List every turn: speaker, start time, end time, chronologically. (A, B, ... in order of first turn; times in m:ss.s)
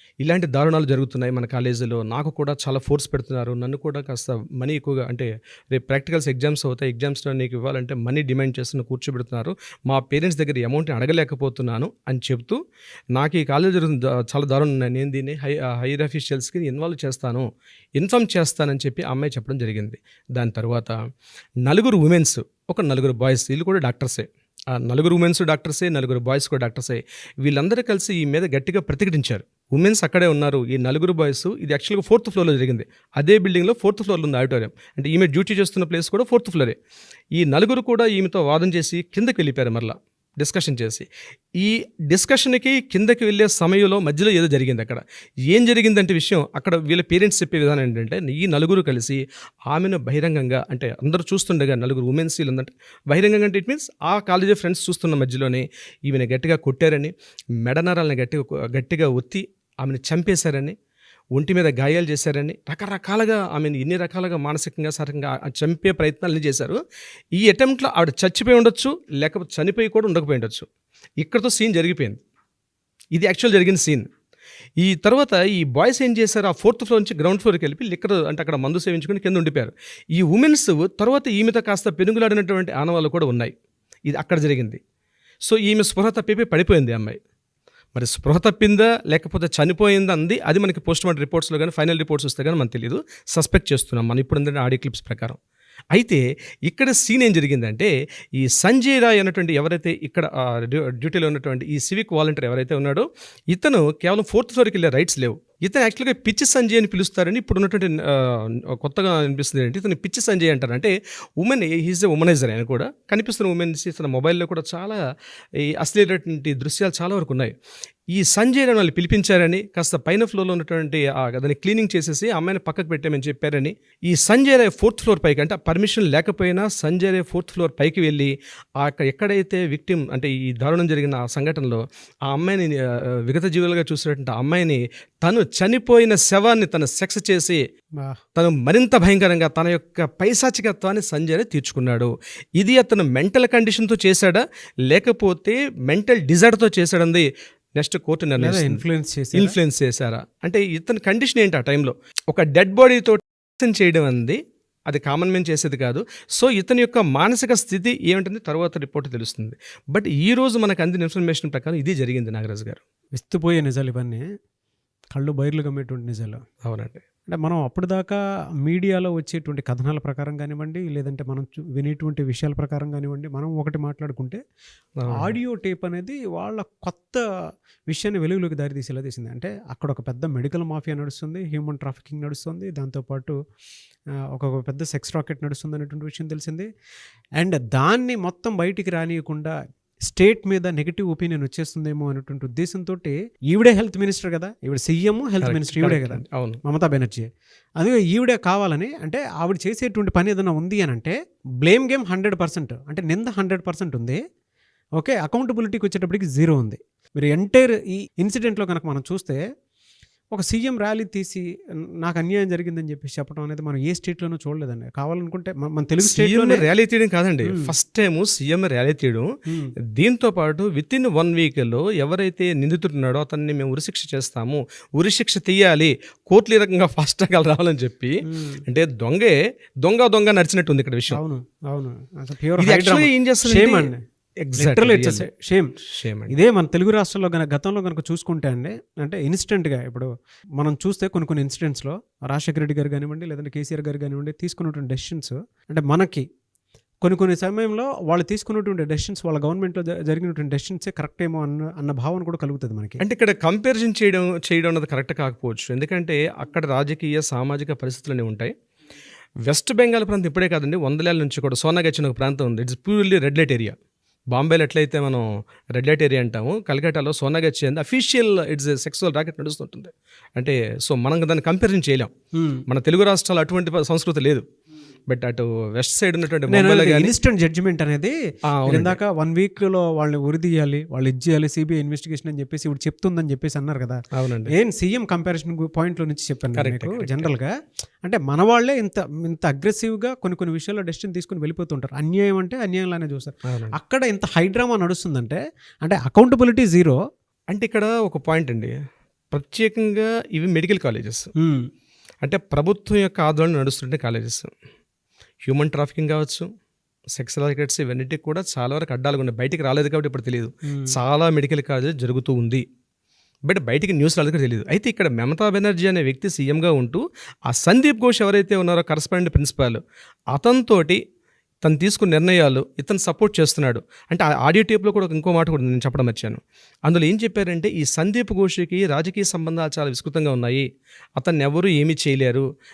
0:00.2-0:12.6 A
0:13.1-0:17.4 A
0:18.0-0:21.0 A
0:21.6-0:36.8 A
0:37.4-0:41.1 A
0:41.6-1:00.8 A
1:01.4-1:06.8 A
1:07.4-1:10.6 A
1:11.2-1:12.2 A
1:13.1-1:14.1 A
1:14.8-1:23.5 A
1:24.1-1:24.8 A
1:25.4-1:27.2 A
1:28.0-1:35.4 A
1:35.9-1:55.0 A
1:55.6-1:57.5 A
1:58.1-2:17.6 A
2:18.4-2:28.8 A
2:28.4-2:29.6 B
2:29.3-2:34.4 A
2:34.9-2:42.8 A
2:43.2-2:44.2 B
2:45.1-2:46.4 B
2:46.7-2:47.0 A
2:47.3-2:54.4 B
2:55.0-2:55.4 A
2:55.1-2:57.2 B
2:57.9-3:03.3 B
3:04.3-3:06.7 B
3:07.4-3:17.3 B
3:15.4-3:16.6 A
3:17.8-3:24.2 B
3:25.0-3:29.4 B
3:30.3-3:31.4 B
3:32.0-3:36.7 B
3:36.0-3:39.3 A
3:37.5-3:37.7 B
3:40.0-3:48.2 A
3:48.2-3:48.6 B
3:48.7-3:51.2 A
3:51.1-3:54.0 B
3:52.6-3:53.9 A
3:54.4-3:55.3 A
3:54.6-3:55.7 B
3:55.9-3:56.3 A
3:56.3-4:00.1 B
4:00.6-4:06.2 B
4:07.0-4:13.0 B
4:13.0-4:18.5 A
4:19.5-4:23.8 A
4:24.3-4:32.1 A
4:32.3-4:32.6 B
4:32.7-4:34.4 A
4:35.1-4:37.1 A
4:36.5-4:44.0 B
4:38.5-4:39.0 A
4:44.1-4:44.5 A
4:44.5-4:47.5 B
4:46.6-4:47.3 A
4:48.0-4:57.0 B
4:53.5-4:53.7 A
4:57.5-4:58.7 A
4:59.3-5:01.3 A
5:01.4-5:01.7 B
5:02.2-5:04.5 A
5:05.5-5:06.5 A
5:07.2-5:12.6 A
5:10.7-5:11.0 B
5:13.5-5:19.8 A
5:20.3-5:21.0 A
5:21.6-5:30.6 A
5:31.2-5:32.4 A